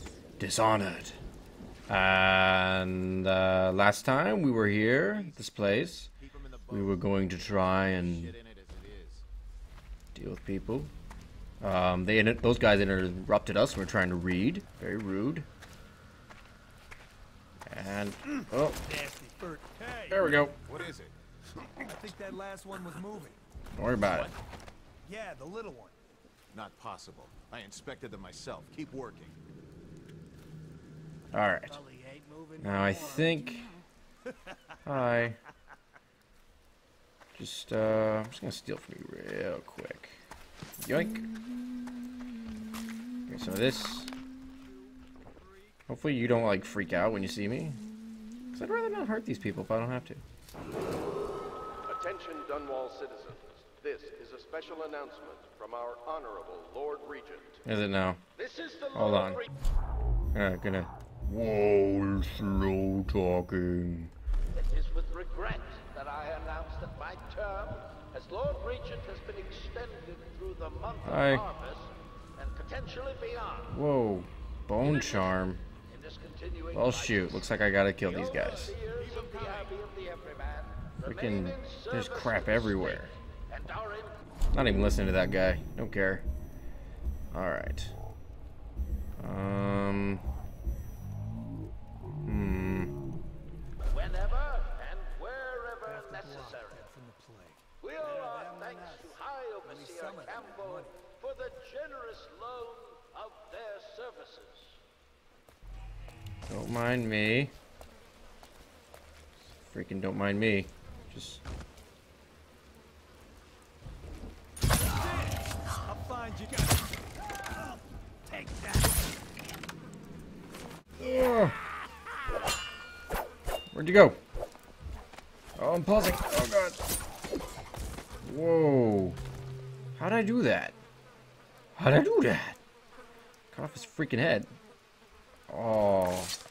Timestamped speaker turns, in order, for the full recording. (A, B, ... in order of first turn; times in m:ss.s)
0:00.4-0:01.2 A
0:01.9-0:06.1 A
0:04.6-0:09.2 B
0:06.7-0:08.4 A
0:10.2-0:10.9 A
0:11.6-0:15.5 A
0:17.7-0:18.8 A
0:18.9-0:20.6 C
0:20.1-0:20.6 A
0:20.6-0:21.8 B
0:21.9-0:23.4 C
0:23.7-0:24.3 A
0:25.0-0:26.0 C
0:26.5-0:29.4 B
0:31.3-0:31.8 A
0:31.7-0:33.5 C
0:32.6-0:33.7 A
0:34.3-0:34.9 C
0:34.8-0:35.4 A
0:37.4-0:40.2 A
0:40.8-0:41.3 A
0:43.3-0:44.1 A
0:45.9-0:47.8 A
0:48.5-0:50.2 A
0:51.9-0:57.6 D
0:57.6-0:58.2 A
0:58.4-0:58.9 D
0:58.9-0:59.4 A
1:00.3-1:04.1 A
1:04.6-1:11.9 D
1:11.0-1:11.5 A
1:12.4-1:13.6 D
1:13.6-1:15.6 A
1:16.0-1:16.7 D
1:16.7-1:18.9 A
1:18.2-1:22.0 D
1:18.9-1:19.8 C
1:21.0-1:23.1 A
1:23.5-1:24.2 D
1:24.5-1:26.2 A
1:27.3-1:27.9 A
1:29.2-1:30.2 A
1:32.2-1:33.0 A
1:33.9-1:36.1 D
1:35.8-1:41.1 C
1:37.8-1:44.7 D
1:46.4-1:47.5 A
1:49.6-1:51.4 A
1:54.9-1:59.1 C
2:01.0-2:01.6 A
2:03.7-2:04.2 A
2:05.6-2:06.8 A
2:08.2-2:09.2 A
2:10.0-2:10.8 A
2:11.8-2:12.6 A
2:13.5-2:14.6 A
2:15.5-2:16.4 A